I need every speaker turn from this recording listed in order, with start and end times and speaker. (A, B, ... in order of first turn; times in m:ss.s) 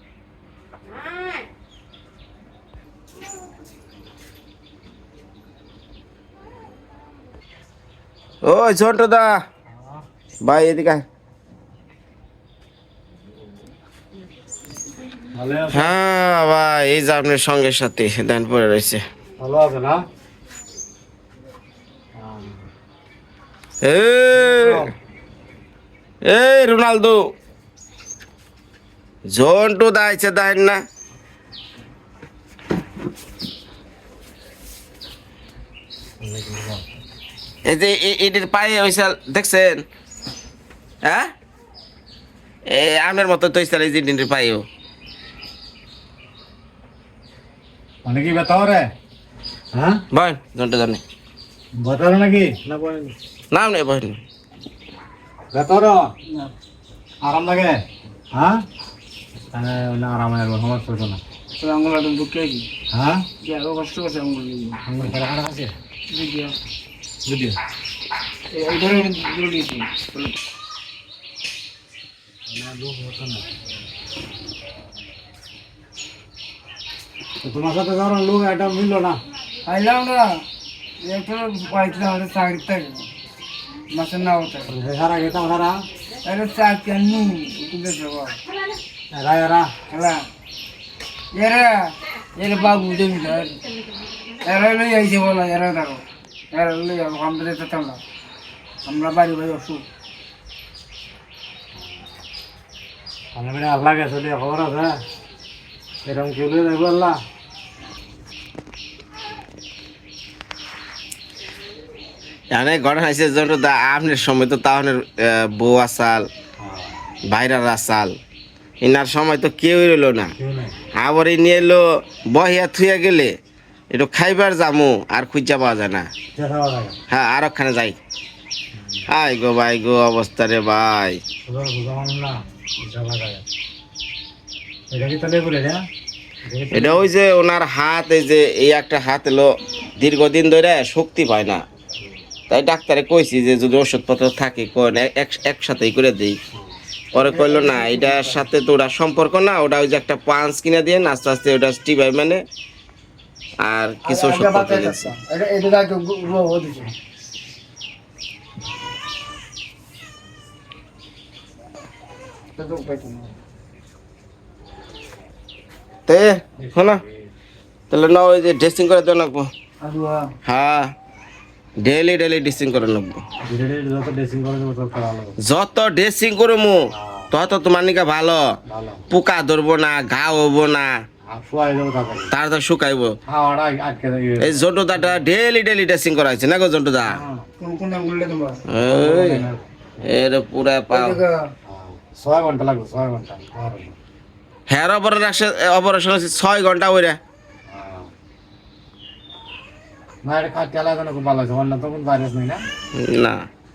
0:08.4-0:09.4 A
0:09.7-0:10.0 B
0:10.4-0:11.0 A
0:15.3-0:15.9 B
0:15.8-0:19.0 A
0:19.4-0:20.0 B
0:22.2-0:22.6 B
0:23.8-0:24.7 A
0:24.4-0:24.9 B
0:26.3-0:27.2 A
0:29.3-0:30.8 A
0:36.2-0:36.8 B
0:37.7-0:39.9 A
0:42.7-0:44.6 A
0:48.0-0:48.9 B
0:49.7-0:50.0 B
0:50.1-0:51.0 A
0:51.8-0:53.1 B
0:53.5-0:54.2 A
0:55.5-0:56.0 B
0:57.2-0:57.8 B
0:58.3-0:58.6 B
0:59.5-1:01.2 B
1:01.6-1:02.7 C
1:02.9-1:03.3 B
1:03.4-1:04.8 C
1:04.9-1:05.7 B
1:06.1-1:06.5 C
1:07.2-1:07.6 B
1:08.5-1:10.2 C
1:12.5-1:13.5 B
1:17.4-1:19.2 B
1:19.7-1:20.4 C
1:21.0-1:23.1 C
1:23.9-1:24.7 C
1:24.7-1:25.9 B
1:26.2-1:28.4 C
1:29.1-1:29.7 B
1:29.9-1:30.2 C
1:31.3-1:33.6 C
1:34.4-1:38.0 C
1:38.8-1:39.8 C
1:41.8-1:42.1 B
1:43.3-1:45.0 B
1:46.0-1:47.2 B
1:52.5-1:56.3 A
1:56.6-1:56.9 B
1:57.3-1:58.2 A
1:58.8-2:00.3 A
2:00.4-2:00.8 B
2:01.0-2:03.3 A
2:03.9-2:06.1 A
2:06.3-2:07.0 B
2:07.1-2:08.0 A
2:08.7-2:09.0 B
2:09.1-2:11.2 A
2:11.5-2:13.4 B
2:14.9-2:15.8 B
2:16.5-2:17.1 B
2:16.7-2:21.6 A
2:22.5-2:26.4 A
2:27.1-2:28.4 C
2:27.1-2:32.4 A
2:33.6-2:35.1 A
2:34.0-2:36.9 C
2:42.6-2:43.3 C
2:46.1-2:47.0 A
2:46.6-2:47.3 B
2:47.9-2:49.5 A
2:49.8-2:50.2 C
2:50.5-2:50.9 A
2:51.8-2:53.2 A
2:53.4-2:55.3 B
2:55.4-2:56.8 A
2:57.0-2:57.3 B
2:57.3-2:58.4 A
2:58.7-2:59.0 B
2:59.1-3:00.9 A
3:01.3-3:02.3 B
3:02.3-3:03.1 A
3:03.3-3:05.2 B
3:04.4-3:07.1 A
3:07.0-3:07.5 B
3:07.6-3:08.6 C
3:08.7-3:09.5 A
3:08.8-3:09.7 B
3:10.1-3:11.2 A
3:10.9-3:11.3 C
3:11.7-3:14.0 B
3:14.7-3:17.2 A
3:17.7-3:18.1 B
3:20.2-3:22.6 B
3:23.0-3:23.4 A